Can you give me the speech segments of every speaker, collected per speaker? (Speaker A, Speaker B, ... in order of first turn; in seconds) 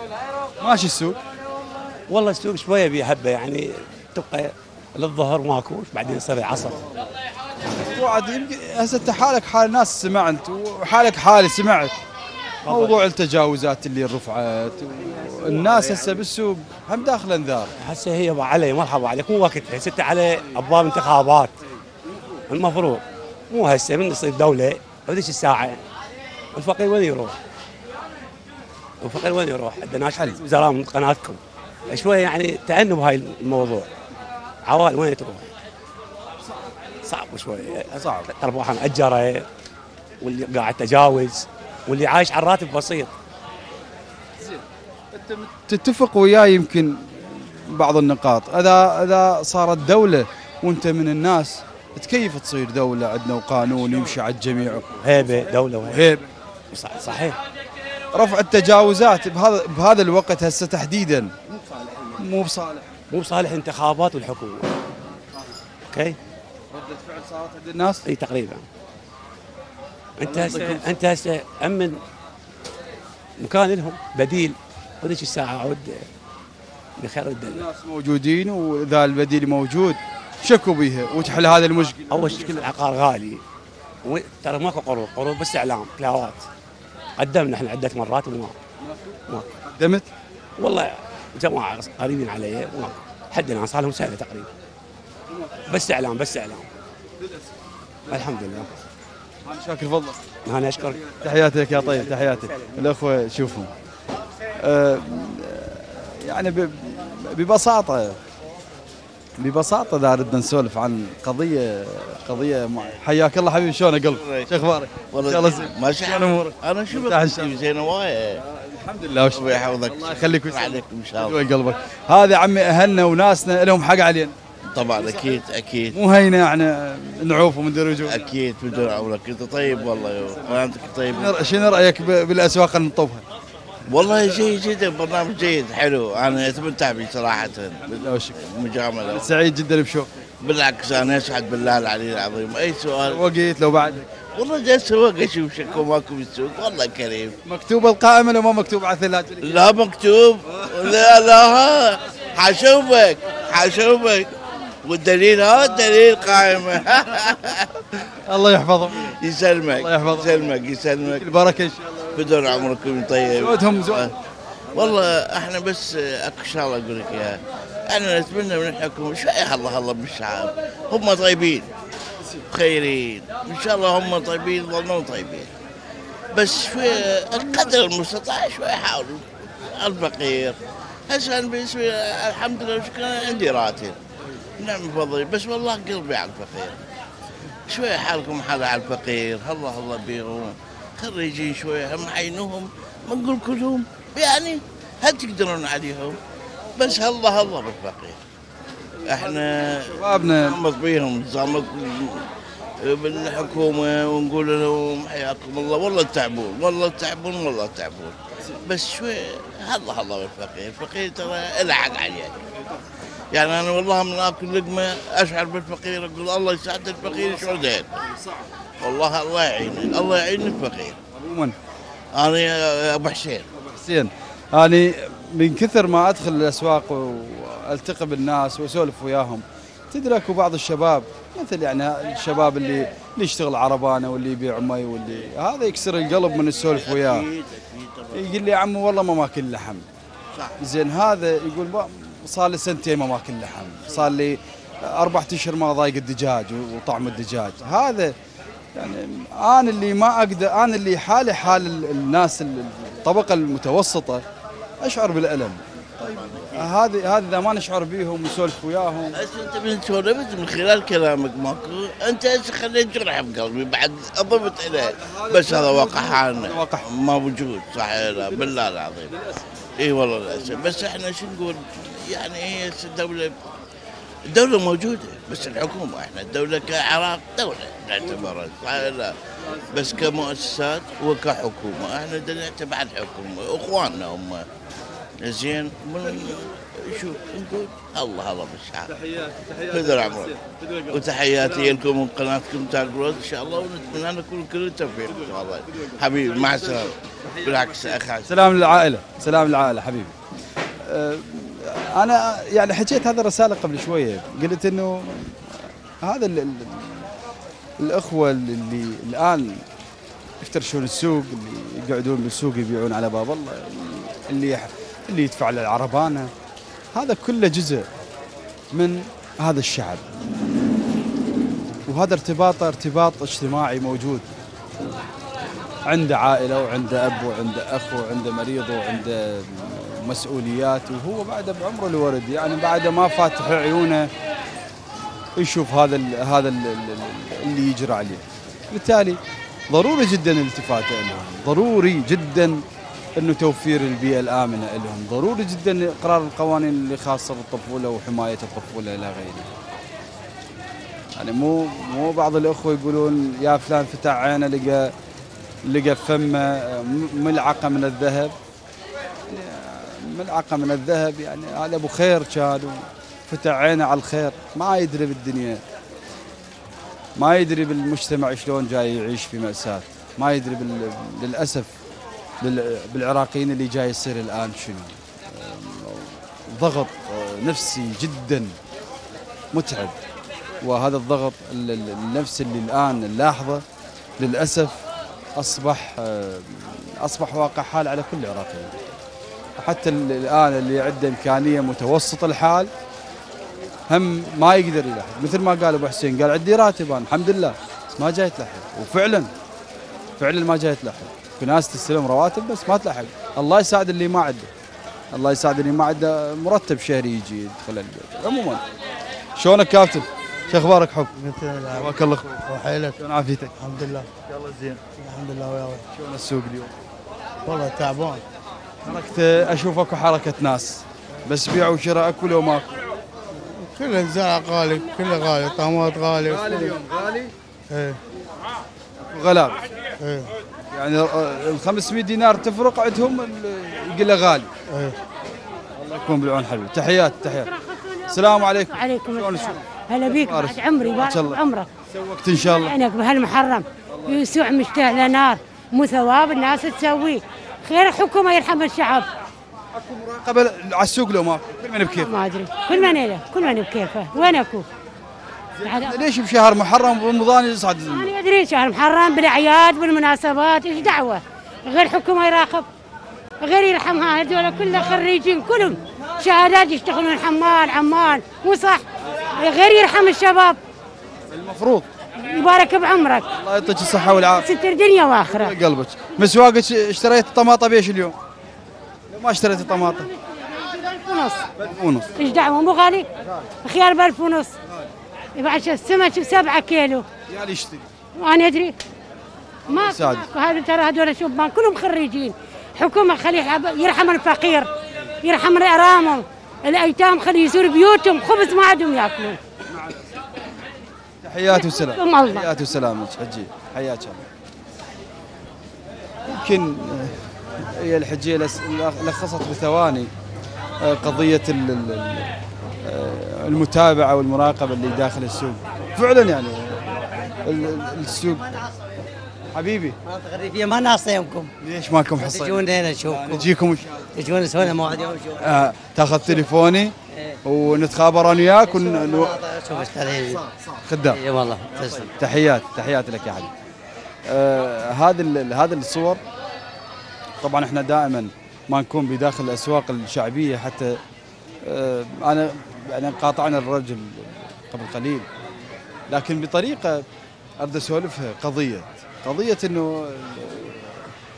Speaker A: 0.6-1.2, 7.8-12.0, 12.7-17.7, 30.1-30.4, 37.9-38.3, 44.4-56.3, 58.1-61.4, 62.1-62.9, 66.7-68.0, 70.2-70.8, 77.5-82.7, 88.8-90.1, 95.3-95.6, 99.5-100.3, 101.0-103.7, 104.6-108.2, 109.4-117.6, 118.4-124.3, 125.0-125.4, 125.9-128.3, 131.1-133.2, 137.9-138.4, 139.1-140.1, 143.0-144.1, 147.4-149.7, 150.5-151.0, 158.2-159.2, 159.7-160.5, 161.1-162.4, 163.4-164.1, 199.7-200.6, 217.1-218.4, 221.1-221.6, 223.6-237.2, 238.1-239.8, 240.6-248.2, 248.8-254.2, 254.8-259.2, 264.9-266.9, 269.1-269.4, 278.0-278.3, 279.4-280.0, 288.9-291.8, 296.6-300.1, 300.8-307.1, 307.8-309.6, 310.4-316.3, 316.9-317.9, 318.7-320.1, 321.9-324.3, 325.9-334.1, 335.4-342.6, 343.2-349.5, 351.2-354.9, 355.7-358.3, 359.3-365.6, 367.2-371.7, 372.4-378.6, 379.5-380.0, 380.6-383.6, 384.2-384.8, 385.4-388.8, 389.6-392.7, 393.9-399.3, 400.2-404.5, 405.1-408.6, 409.4-411.1, 411.7-412.4, 413.0-413.6, 415.9-416.7, 418.9-422.8, 426.3-427.3, 429.0-429.6, 430.7-434.5, 435.8-437.5, 438.1-442.8, 443.9-444.2, 449.7-452.1, 455.6-458.1, 471.3-471.9, 473.3-474.5, 475.2-478.2, 479.1-480.1, 481.6-482.1, 487.3-487.9, 489.7-490.3, 499.6-500.1, 501.2-504.3, 506.3-510.1, 510.8-518.7, 519.5-520.0, 521.6-531.2, 531.7-533.5, 534.3-536.2, 537.4-541.0, 541.6-545.3, 546.1-547.0, 547.6-551.1
Speaker B: 2.1-6.9, 12.7-12.9, 17.8-21.5, 22.5-25.8, 26.6-27.4, 29.0-33.9, 34.7-35.5, 37.1-39.5, 40.2-43.1, 55.0-56.1, 56.7-57.4, 63.1-64.7, 65.9-66.2, 68.1-68.7, 70.2-72.0, 73.4-76.1, 77.0-77.6, 82.1-83.4, 84.0-86.4, 87.2-88.6, 89.3-89.5, 90.6-94.5, 95.7-96.7, 98.1-98.7, 100.5-101.2, 101.9-102.7
Speaker C: 114.1-114.5, 115.1-118.4, 119.3-121.4, 124.7-126.0, 128.1-131.4, 133.9-139.3, 140.4-143.2, 144.3-147.4, 149.4-157.8, 159.1-161.2, 162.2-164.1, 164.7-171.7, 172.5-175.5, 176.3-184.0, 184.6-186.8, 187.7-196.2, 196.8-198.2, 199.1-202.3, 202.8-212.3, 213.3-218.0, 218.8-221.0, 222.2-223.5, 236.7-238.3, 256.0-256.7, 259.1-269.1, 269.8-273.3, 274.3-279.1, 279.7-284.5, 285.2-288.9, 289.7-290.3, 290.9-298.3
Speaker D: 411.1-413.0, 413.6-415.8, 417.5-418.2, 423.5-426.8, 427.7-428.0, 430.0-430.3, 434.7-435.0
Speaker E: 437.6-441.7, 442.3-449.1, 451.9-454.7, 455.6-456.0, 457.9-462.7, 463.4-470.6, 472.2-473.3, 474.2-475.6, 480.2-481.5, 482.2-483.1, 483.6-484.5, 485.4-487.1, 488.1-488.8, 489.7-494.7, 495.2-499.4, 501.5-502.5
Speaker F: 520.0-521.5, 522.2-523.5, 524.1-525.6, 527.1-527.4, 528.6-530.4, 531.1-532.1